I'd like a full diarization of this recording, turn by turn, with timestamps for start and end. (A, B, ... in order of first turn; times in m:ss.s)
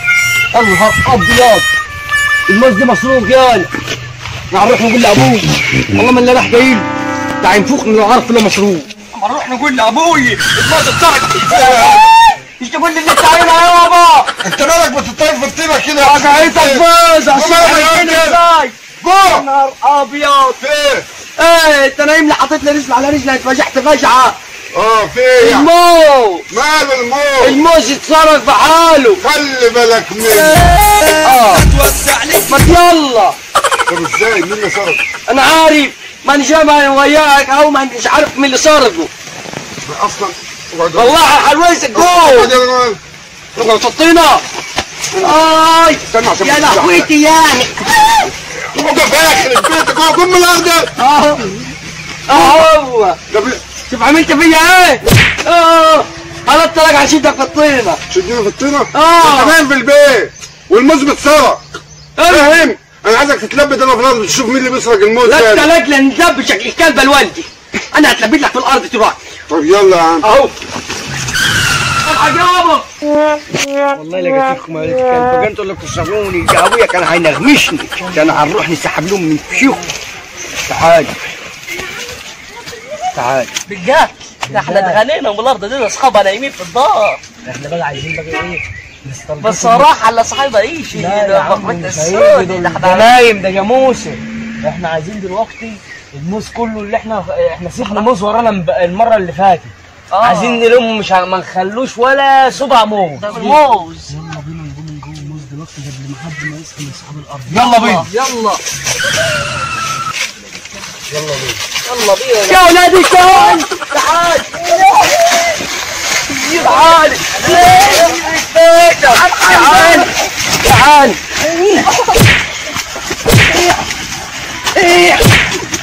0:00.5-0:01.7 A
0:02.5-0:03.7 A
0:04.5-0:06.9 A
0:07.4-0:14.3 A
0:11.5-0:12.1 B
0:14.4-0:18.4 B
0:16.0-0:20.6 A
0:19.0-0:19.5 B
0:20.6-0:21.1 B
0:21.4-0:24.4 A
0:24.7-0:25.7 B
0:25.4-0:26.4 A
0:26.5-0:27.6 B
0:27.4-0:29.2 A
0:29.2-0:30.8 B
0:31.2-0:31.7 A
0:32.3-0:33.4 A
0:33.9-0:35.0 B
0:35.3-0:39.1 A
0:39.8-0:41.2 B
0:41.0-0:42.6 A
0:41.9-0:43.0 B
0:43.6-0:44.4 A
0:45.1-0:45.5 B
0:45.2-0:48.0 A
0:46.0-0:47.1 B
0:48.7-0:50.9 B
0:51.0-0:51.6 A
0:52.3-0:53.2 A
0:53.3-0:53.6 B
0:53.9-0:58.0 A
0:58.1-1:01.6 B
0:58.9-0:59.6 A
1:02.2-1:02.7 A
1:02.3-1:05.7 B
1:05.2-1:09.2 A
1:09.5-1:10.3 B
1:10.2-1:10.5 A
1:12.0-1:12.8 A
1:14.0-1:19.8 A
1:20.7-1:21.1 A
1:23.1-1:23.5 A
1:23.7-1:27.2 C
1:24.5-1:25.0 D
1:27.4-1:29.9 D
1:29.4-1:33.1 C
1:31.0-1:32.9 D
1:32.8-1:34.2 A
1:34.6-1:39.7 D
1:37.8-1:38.1 C
1:40.1-1:40.7 C
1:40.2-1:48.1 D
1:43.2-1:44.2 C
1:43.3-1:43.6 A
1:47.5-1:48.1 A
1:47.6-1:48.6 C
1:51.2-1:51.5 B
1:51.9-1:52.3 D
1:52.1-1:52.6 C
1:52.5-1:53.8 A
1:53.4-1:55.2 C
1:56.4-2:01.2 A
1:56.5-1:58.2 C
1:59.1-2:00.1 C
2:01.6-2:01.9 C
2:04.8-2:05.2 A